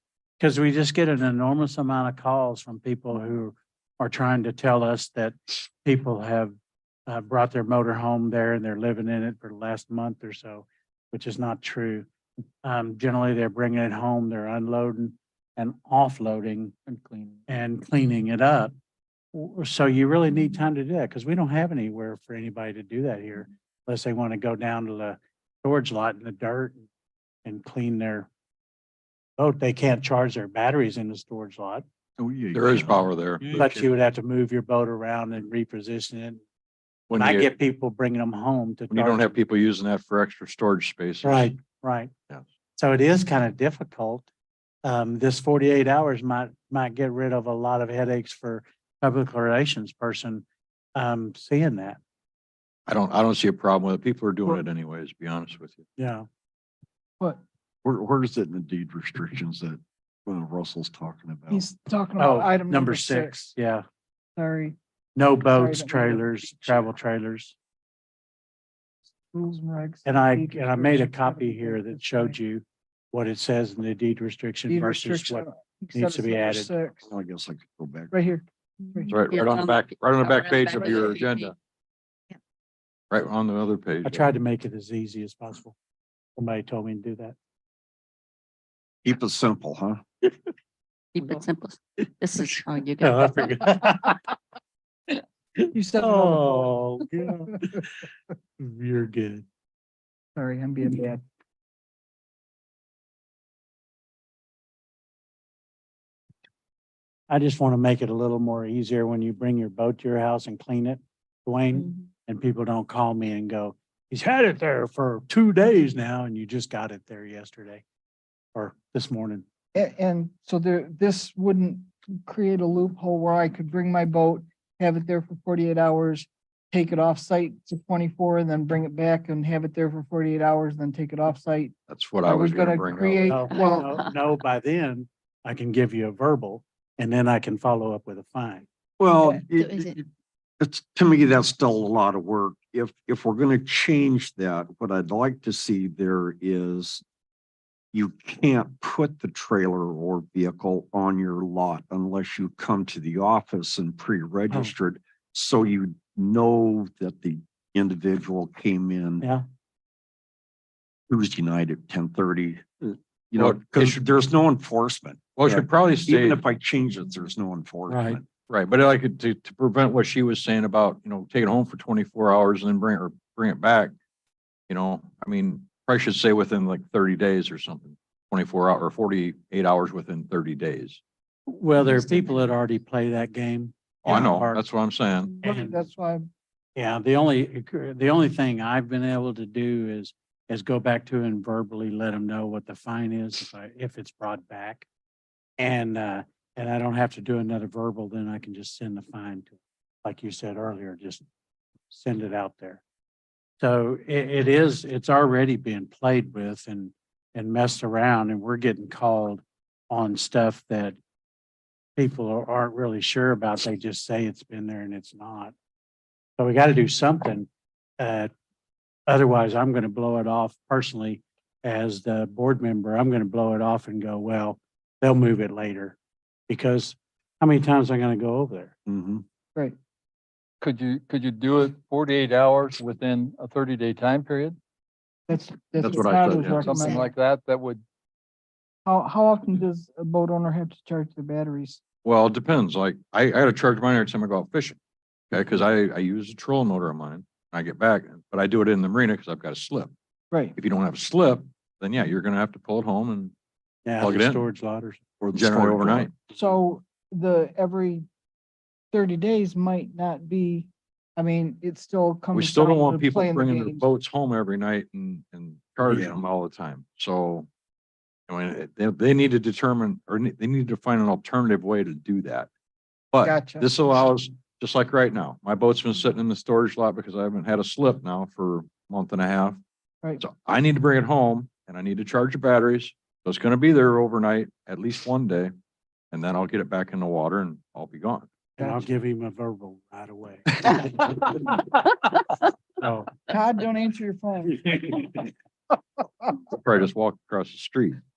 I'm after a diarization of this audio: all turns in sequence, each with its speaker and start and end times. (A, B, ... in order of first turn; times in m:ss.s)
0:00.4-0:06.5 A
0:07.1-0:12.0 A
0:12.6-0:16.7 A
0:16.9-0:17.5 B
0:17.5-0:18.7 A
0:19.3-0:26.8 A
0:27.4-0:28.3 A
0:29.4-0:31.8 A
0:32.2-0:33.9 C
0:32.5-0:33.4 D
0:33.5-0:36.4 A
0:37.1-0:37.5 D
0:37.1-0:39.2 A
0:38.9-0:41.5 D
0:41.2-0:42.1 A
0:42.8-0:44.3 A
0:44.8-0:50.4 A
0:51.0-0:52.0 A
0:52.9-0:55.8 D
0:56.0-0:56.3 A
0:57.8-1:01.6 C
1:01.5-1:03.4 E
1:02.2-1:03.8 A
1:04.4-1:04.8 E
1:05.2-1:07.5 A
1:05.4-1:06.9 E
1:09.3-1:12.4 E
1:10.0-1:16.7 A
1:14.7-1:17.0 E
1:17.0-1:18.1 C
1:18.1-1:19.1 E
1:18.8-1:21.5 F
1:19.1-1:21.5 D
1:23.1-1:24.2 D
1:24.0-1:25.8 A
1:26.4-1:27.3 A
1:29.0-1:30.0 C
1:31.1-1:33.6 F
1:33.0-1:34.2 A
1:35.7-1:36.8 E
1:35.9-1:37.9 A
1:38.6-1:39.4 A
1:40.4-1:41.2 E
1:47.3-1:57.8 A
1:58.5-1:59.4 A
1:59.7-2:13.9 E
2:11.9-2:13.3 D
2:13.2-2:18.6 A
2:19.0-2:20.0 C
2:19.2-2:20.0 F
2:20.6-2:27.0 C
2:27.9-2:39.2 C
2:41.1-2:48.2 C
2:43.4-2:44.0 D
2:45.4-2:46.4 D
2:47.9-2:53.9 D
2:54.7-3:01.0 D
3:01.5-3:04.6 A
3:04.0-3:05.4 D
3:05.4-3:06.2 E
3:05.4-3:05.8 A
3:06.8-3:14.8 A
3:15.6-3:21.2 A
3:21.9-3:22.8 A
3:23.6-3:31.0 A
3:32.0-3:35.5 A
3:36.4-3:37.5 A
3:38.0-3:38.3 A
3:39.1-3:46.0 A
3:46.5-3:48.7 A
3:48.8-3:49.2 C
3:50.6-3:54.6 B
3:55.3-3:57.1 E
3:55.8-3:56.9 D
3:56.6-3:57.8 B
3:58.8-4:01.8 E
4:02.0-4:04.8 D
4:05.3-4:09.9 D
4:10.5-4:13.3 D
4:13.8-4:15.0 A
4:14.0-4:14.5 D
4:15.2-4:16.1 C
4:15.3-4:16.1 D
4:16.3-4:18.0 E
4:18.9-4:23.8 E
4:22.3-4:27.5 D
4:25.8-4:26.2 C
4:28.3-4:32.5 D
4:33.1-4:39.6 D
4:33.2-4:33.7 E
4:40.2-4:45.5 D
4:46.1-4:48.3 D
4:48.6-4:51.6 A
4:48.6-4:48.8 E
4:52.8-4:53.1 A
4:53.3-4:55.2 E
4:56.5-4:58.0 D